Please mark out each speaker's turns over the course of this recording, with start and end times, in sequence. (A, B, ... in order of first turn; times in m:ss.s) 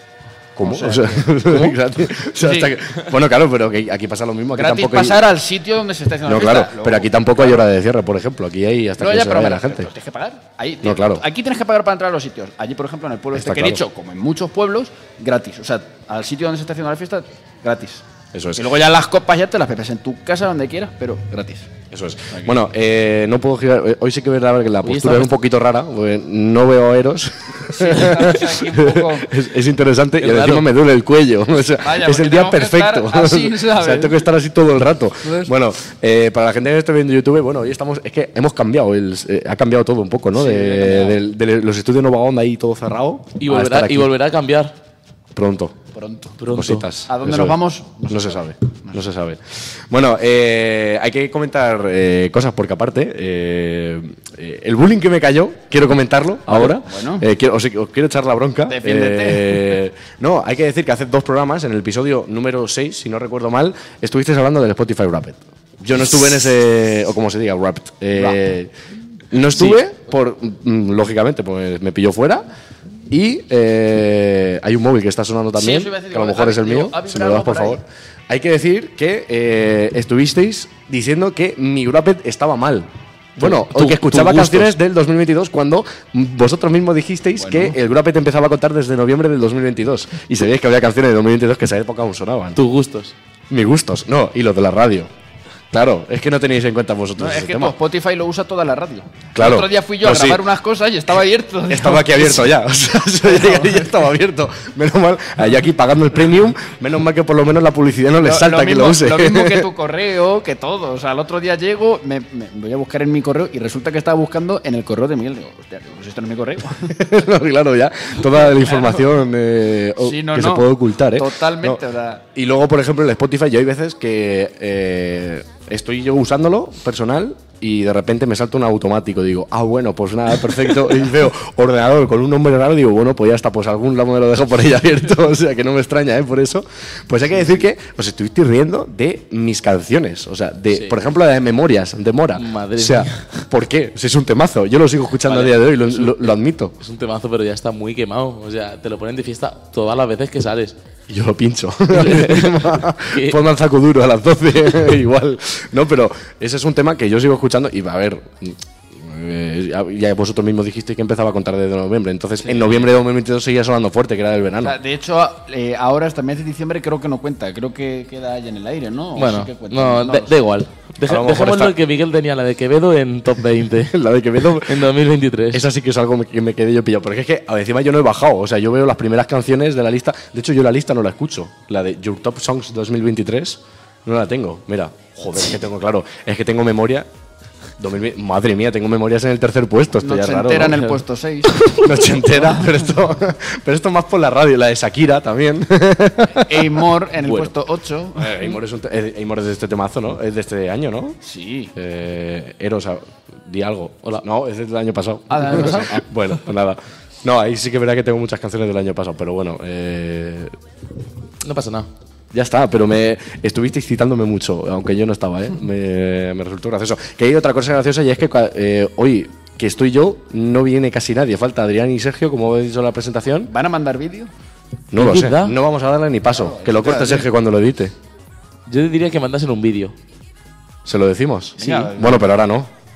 0:00.6-0:05.2 A
0:00.6-0:01.7 B
0:02.4-0:03.0 B
0:04.5-0:07.7 B
0:06.2-0:09.9 A
0:09.0-0:18.0 B
0:10.8-0:11.2 A
0:13.3-0:13.8 A
0:18.3-0:18.7 A
0:18.6-0:21.7 B
0:21.9-0:44.1 A
0:24.8-0:25.3 C
0:27.7-0:29.3 B
0:30.2-0:30.7 C
0:31.8-0:34.3 B
0:35.2-0:35.5 B
0:40.3-0:41.2 B
0:43.4-0:44.8 C
0:45.4-0:45.8 A
0:45.9-0:46.4 B
0:46.4-0:46.9 C
0:46.4-0:47.6 A
0:47.1-0:49.0 B
0:48.1-1:08.7 A
0:56.5-0:57.2 B
0:58.7-0:59.8 B
1:08.1-1:08.4 B
1:09.3-1:12.4 A
1:13.1-1:32.6 A
1:15.5-1:17.8 B
1:23.4-1:24.7 C
1:27.4-1:27.8 B
1:32.6-1:33.1 C
1:33.5-1:35.1 A
1:35.7-1:37.8 A
1:37.2-1:42.5 B
1:39.4-1:40.4 A
1:41.7-1:49.7 A
1:43.2-1:44.0 B
1:48.2-1:57.0 B
1:56.9-2:01.8 A
1:58.2-1:59.0 B
2:00.0-2:02.2 B
2:02.3-2:26.8 A
2:22.4-2:23.4 C
2:25.2-2:30.8 C
2:31.1-2:44.8 A
2:31.9-2:33.4 C
2:42.4-2:42.8 B
2:44.6-2:50.4 B
2:49.2-2:54.0 C
2:51.0-2:51.8 A
2:53.9-2:54.9 A
2:54.5-2:55.6 C
2:55.5-3:07.1 A
3:07.8-3:10.9 A
3:10.0-3:11.8 B
3:11.5-3:11.9 C
3:11.8-3:16.9 A
3:12.4-3:12.8 B
3:16.4-3:18.6 B
3:18.2-3:21.2 A
3:21.2-3:21.7 B
3:21.8-3:30.5 A
3:25.3-3:26.0 B
3:31.4-3:31.9 C
3:32.3-3:43.5 A
3:43.4-3:44.3 B
3:44.9-3:47.9 A
3:45.0-3:45.6 C
3:46.3-3:47.3 B
3:48.7-3:49.9 C
3:50.8-3:52.7 A
3:51.6-3:52.3 B
3:51.6-3:51.9 C